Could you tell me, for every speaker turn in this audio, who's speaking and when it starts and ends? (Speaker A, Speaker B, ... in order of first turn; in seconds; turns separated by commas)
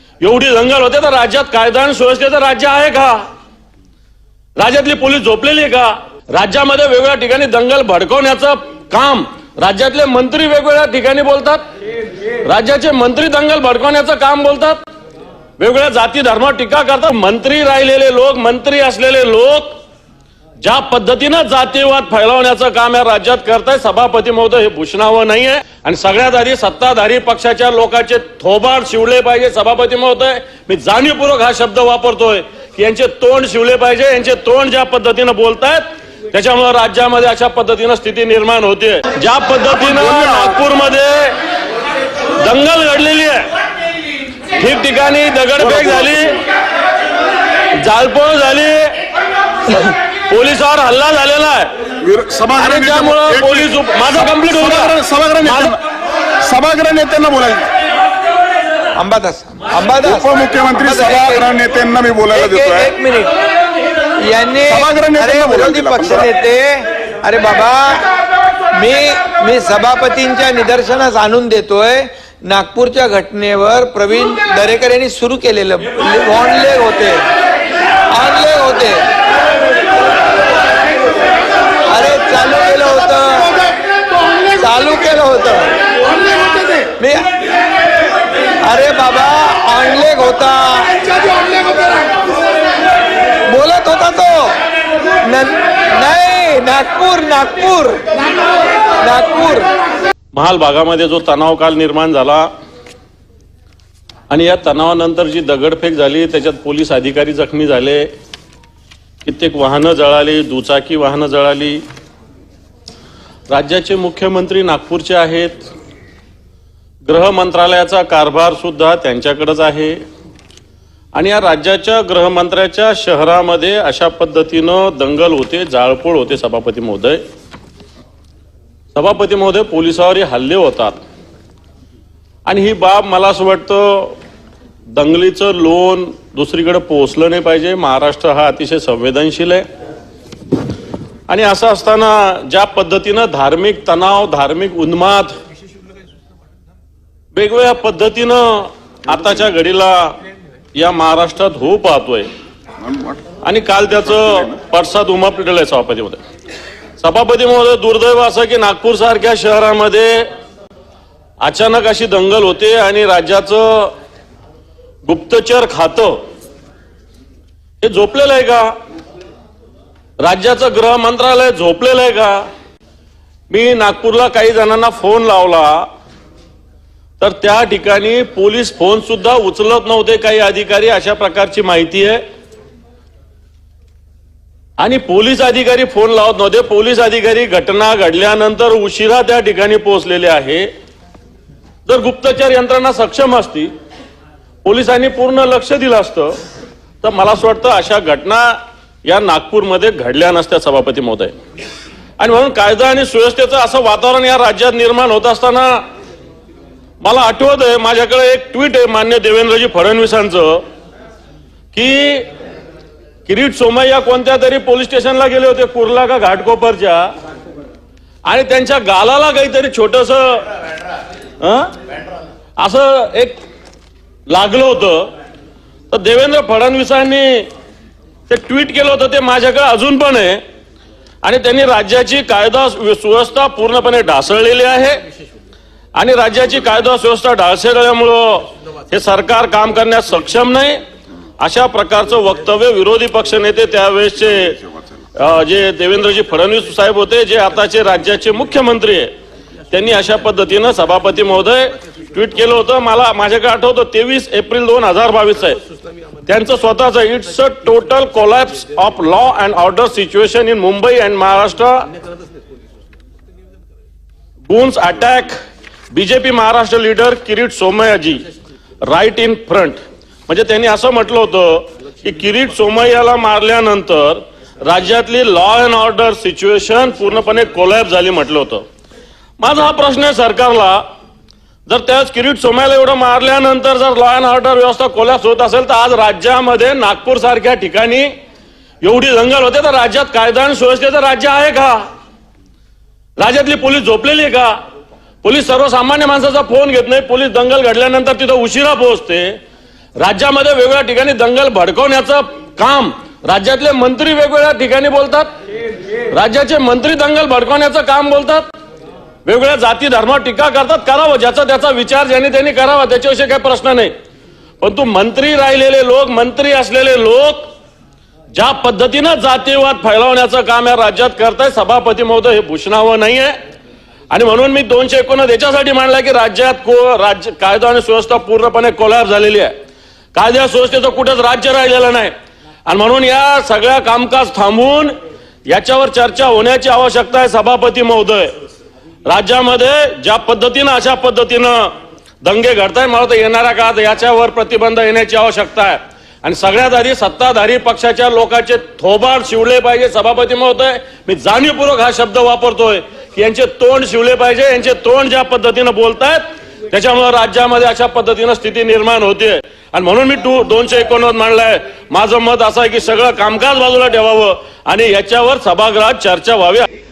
Speaker A: 0.2-3.2, Speaker A: 4.6-11.6, Speaker A: 12.4-14.8, Speaker A: 15.6-19.8, Speaker A: 20.6-41.3, Speaker B: 39.8-40.5, Speaker A: 42.4-43.5, Speaker A: 44.5-46.4, Speaker B: 45.6-46.2, Speaker A: 47.8-48.9, Speaker A: 49.7-51.7, Speaker B: 52.0-55.8, Speaker A: 52.5-55.8, Speaker B: 56.4-57.7, Speaker C: 58.9-61.5, Speaker B: 59.8-63.0, Speaker C: 62.3-63.3, Speaker C: 64.2-68.1, Speaker B: 64.6-66.4, Speaker C: 68.7-77.3, Speaker C: 78.1-79.1, Speaker C: 81.9-83.7, Speaker C: 84.3-85.7, Speaker C: 86.3-87.3, Speaker C: 88.6-92.1, Speaker C: 93.5-94.6, Speaker C: 95.2-98.0, Speaker C: 99.0-99.7, Speaker A: 100.3-102.5, Speaker A: 104.3-108.1, Speaker A: 109.2-111.8, Speaker A: 113.5-115.7, Speaker A: 117.0-120.0, Speaker A: 121.1-127.2, Speaker A: 128.9-131.0, Speaker A: 132.4-134.2, Speaker A: 134.9-139.7, Speaker A: 141.3-145.3, Speaker A: 147.3-150.2, Speaker A: 150.7-152.3, Speaker B: 152.8-153.2, Speaker A: 153.4-156.2, Speaker B: 154.1-154.5, Speaker A: 157.0-160.2, Speaker A: 161.4-163.9, Speaker A: 165.0-166.2, Speaker A: 167.8-168.7, Speaker A: 170.2-172.4, Speaker A: 173.5-175.9, Speaker A: 177.2-182.2, Speaker A: 184.8-190.7, Speaker A: 191.8-193.7, Speaker A: 194.6-196.3, Speaker A: 197.0-198.5, Speaker A: 199.0-201.3, Speaker A: 202.2-205.8, Speaker A: 207.0-210.6, Speaker A: 211.7-212.3, Speaker A: 213.3-217.1, Speaker A: 218.2-220.4, Speaker A: 221.4-221.7, Speaker A: 222.6-223.4, Speaker A: 224.3-225.1, Speaker A: 225.9-227.5, Speaker A: 228.3-230.4, Speaker A: 231.2-235.0, Speaker A: 235.9-240.8, Speaker A: 241.4-244.6, Speaker A: 245.2-249.1, Speaker A: 249.7-255.6, Speaker A: 256.3-261.9, Speaker A: 264.5-265.4, Speaker A: 265.9-268.2, Speaker A: 268.9-278.6, Speaker A: 279.4-280.8, Speaker A: 281.7-288.1, Speaker A: 288.8-291.8, Speaker A: 293.2-294.5, Speaker A: 295.2-299.4, Speaker A: 300.0-305.3, Speaker A: 306.1-308.5, Speaker A: 309.2-313.9, Speaker A: 314.6-317.5, Speaker A: 318.3-323.4, Speaker A: 324.1-329.5, Speaker A: 330.1-332.1, Speaker A: 332.7-334.9, Speaker A: 335.4-338.3, Speaker A: 339.1-366.7